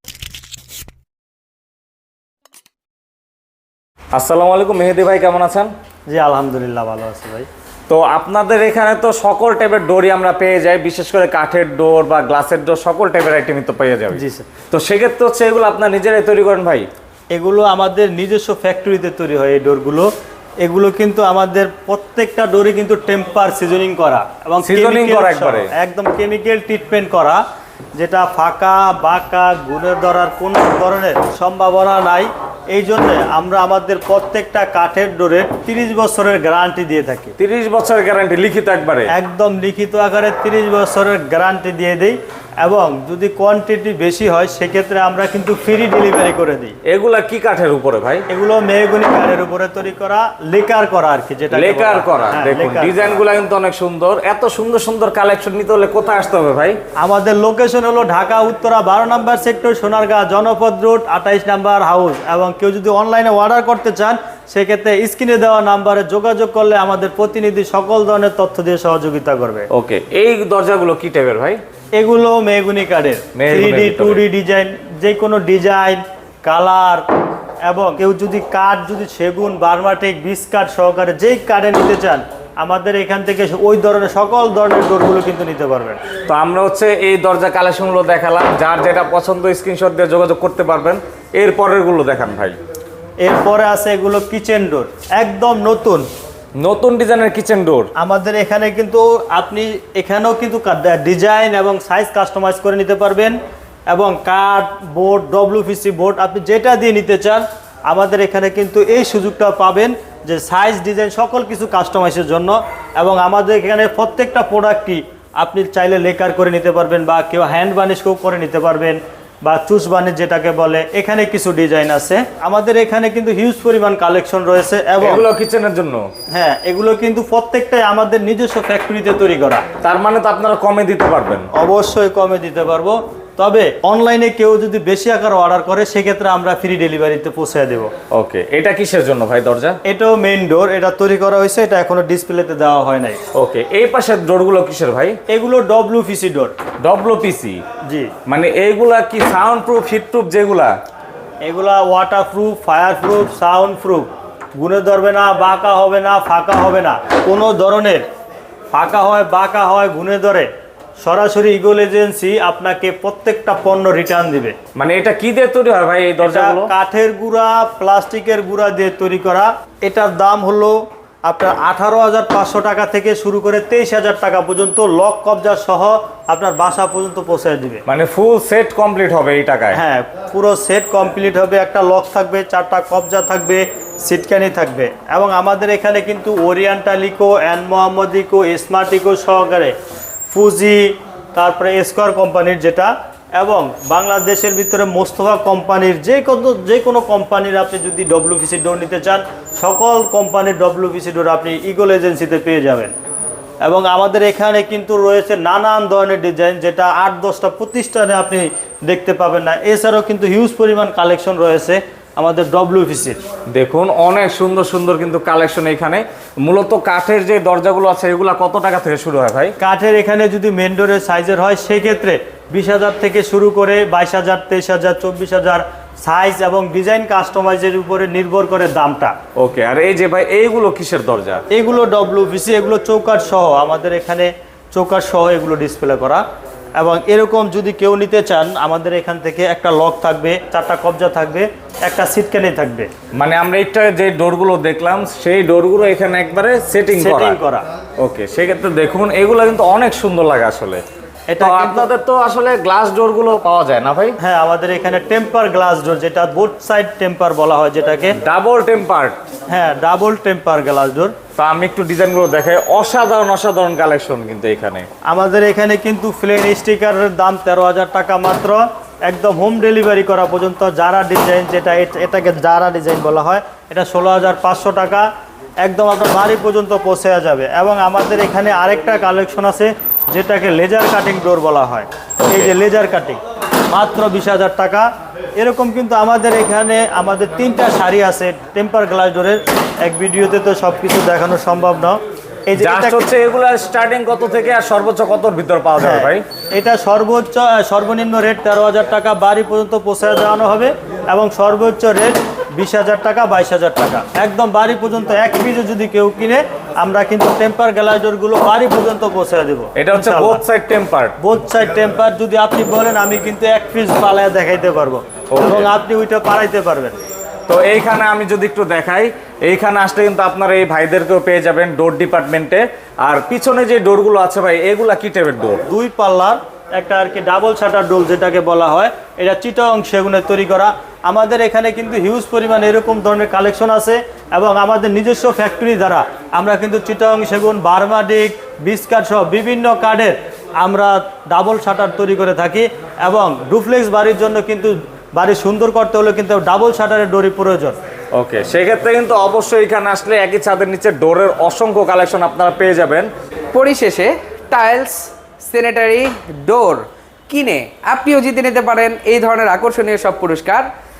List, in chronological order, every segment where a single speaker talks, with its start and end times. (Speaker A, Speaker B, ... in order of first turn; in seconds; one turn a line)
Speaker A: 4.1-5.7
Speaker B: 6.1-7.5
Speaker A: 7.9-16.9
Speaker B: 14.1-14.5
Speaker B: 17.3-20.1
Speaker B: 20.6-27.4
Speaker A: 24.6-25.7
Speaker B: 27.9-37.3
Speaker A: 37.4-39.1
Speaker B: 39.1-46.7
Speaker A: 46.9-48.2
Speaker B: 48.3-53.2
Speaker A: 51.5-56.8
Speaker B: 57.0-69.7
Speaker A: 69.7-71.6
Speaker B: 71.9-77.0
Speaker A: 73.3-74.2
Speaker B: 77.7-86.0
Speaker A: 86.3-92.6
Speaker B: 93.2-96.0
Speaker A: 96.6-97.9
Speaker B: 98.0-103.3
Speaker B: 103.9-125.2
Speaker A: 125.0-126.0
Speaker B: 126.3-129.6
Speaker A: 129.8-131.5
Speaker B: 131.5-137.9
Speaker A: 138.1-139.8
Speaker B: 139.8-143.2
Speaker A: 143.3-145.2
Speaker B: 145.3-146.5
Speaker A: 146.8-147.6
Speaker B: 147.8-148.1
Speaker A: 148.3-150.7
Speaker B: 151.4-158.0
Speaker B: 158.7-160.5
Speaker B: 161.0-164.5
Speaker A: 164.8-166.7
Speaker B: 166.2-177.8
Speaker A: 177.9-179.8
Speaker B: 179.7-189.7
Speaker B: 190.3-190.8
Speaker B: 191.3-202.9
Speaker B: 203.6-213.2
Speaker A: 213.5-219.6
Speaker B: 219.6-229.1
Speaker A: 229.4-231.4
Speaker B: 231.5-236.2
Speaker B: 236.8-242.9
Speaker A: 243.1-247.4
Speaker B: 246.9-247.6
Speaker A: 248.0-250.8
Speaker B: 251.3-251.9
Speaker A: 251.4-254.2
Speaker B: 254.2-258.2
Speaker A: 258.2-259.2
Speaker B: 259.5-261.1
Speaker A: 261.4-264.9
Speaker B: 265.1-275.1
Speaker B: 275.6-283.2
Speaker A: 282.2-282.5
Speaker B: 283.7-284.9
Speaker B: 285.4-292.0
Speaker B: 292.5-293.0
Speaker A: 292.6-296.2
Speaker B: 295.8-310.4
Speaker A: 309.8-311.1
Speaker B: 311.2-317.0
Speaker A: 315.3-315.7
Speaker A: 317.5-325.6
Speaker B: 325.7-347.8
Speaker A: 348.1-353.1
Speaker C: 353.5-360.7